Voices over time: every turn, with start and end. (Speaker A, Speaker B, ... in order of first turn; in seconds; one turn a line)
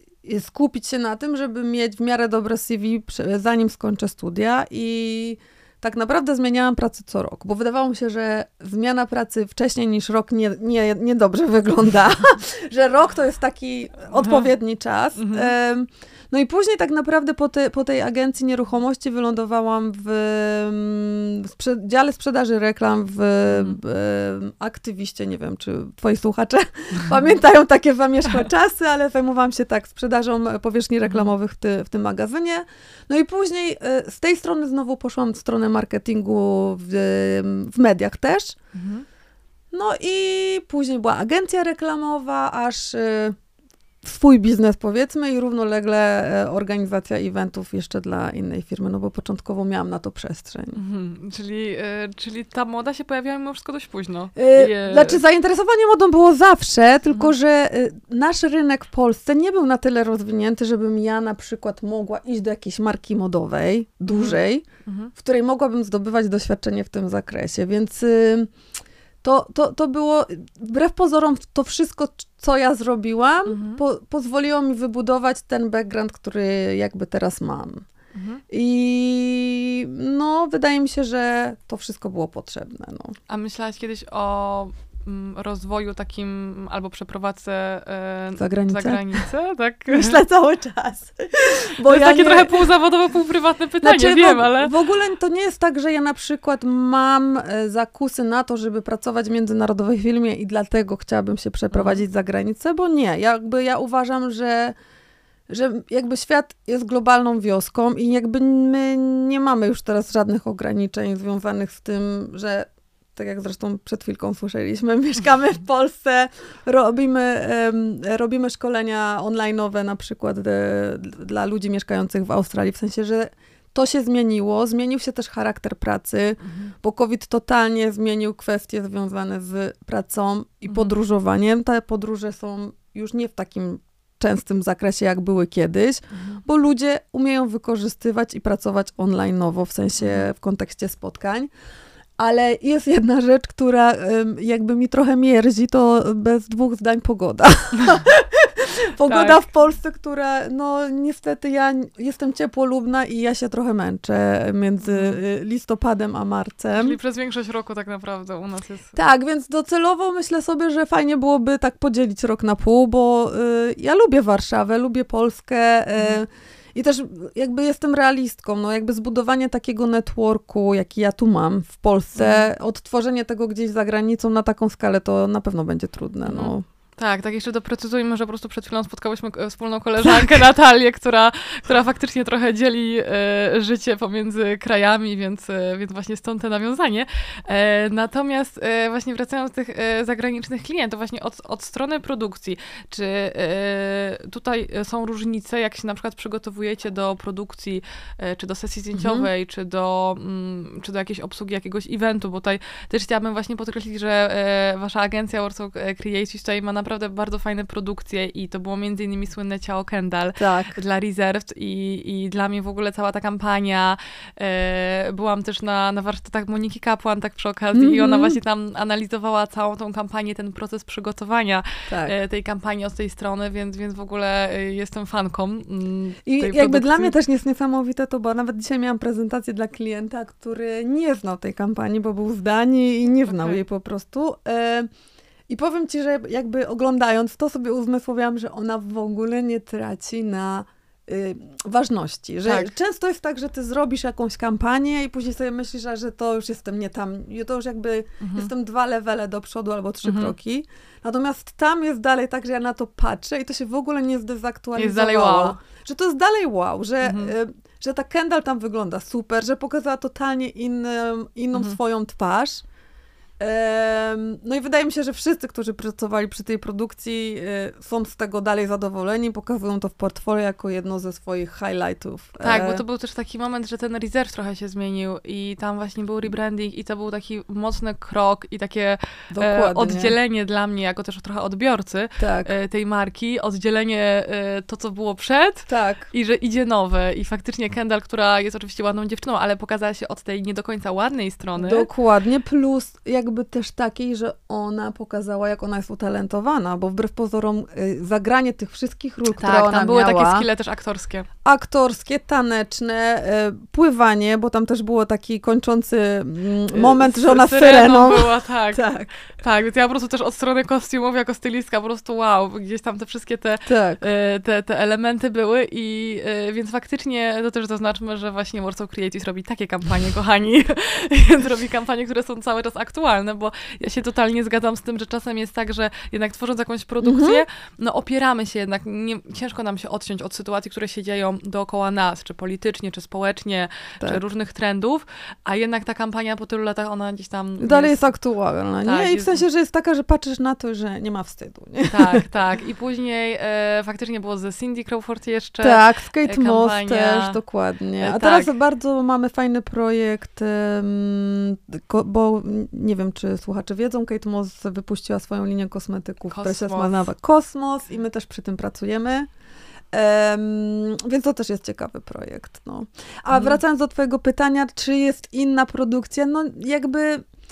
Speaker A: 0.2-38.6
Speaker B: 14.2-14.5
Speaker B: 15.2-15.5
Speaker B: 23.5-23.8
Speaker B: 38.7-39.0
Speaker A: 39.7-43.4
Speaker A: 44.0-50.8
Speaker B: 50.8-55.2
Speaker A: 54.4-64.7
Speaker B: 64.1-65.1
Speaker A: 65.2-68.5
Speaker A: 69.2-77.8
Speaker B: 73.5-73.8
Speaker B: 78.1-78.4
Speaker A: 78.5-83.2
Speaker B: 83.3-90.2
Speaker A: 88.4-89.3
Speaker A: 89.9-92.7
Speaker B: 91.8-94.7
Speaker A: 93.8-104.8
Speaker B: 101.7-102.0
Speaker A: 105.5-141.5
Speaker B: 126.4-126.7
Speaker B: 136.1-136.4
Speaker B: 140.0-140.3
Speaker A: 142.2-157.0
Speaker B: 149.1-149.4
Speaker B: 154.9-155.2
Speaker B: 156.8-158.9
Speaker A: 158.9-176.6
Speaker B: 172.2-172.5
Speaker B: 176.3-227.2
Speaker A: 198.9-199.3
Speaker A: 210.4-210.8
Speaker A: 217.7-218.4
Speaker A: 221.9-222.1
Speaker A: 226.3-234.9
Speaker B: 233.3-233.6
Speaker A: 235.5-262.6
Speaker B: 242.4-242.7
Speaker B: 248.2-248.5
Speaker B: 250.0-250.3
Speaker B: 254.8-255.6
Speaker B: 257.0-257.3
Speaker A: 263.4-272.8
Speaker B: 272.4-291.9
Speaker A: 279.3-280.1
Speaker A: 282.2-282.5
Speaker A: 285.7-286.1
Speaker A: 291.6-300.5
Speaker B: 299.4-301.3
Speaker A: 301.4-309.1
Speaker B: 306.7-338.1
Speaker A: 313.7-314.0
Speaker A: 327.0-327.4
Speaker A: 337.6-342.2
Speaker B: 338.8-339.4
Speaker B: 341.9-347.4
Speaker A: 345.6-359.3
Speaker B: 348.0-348.5
Speaker B: 356.3-357.1
Speaker A: 359.9-367.2
Speaker B: 363.3-363.6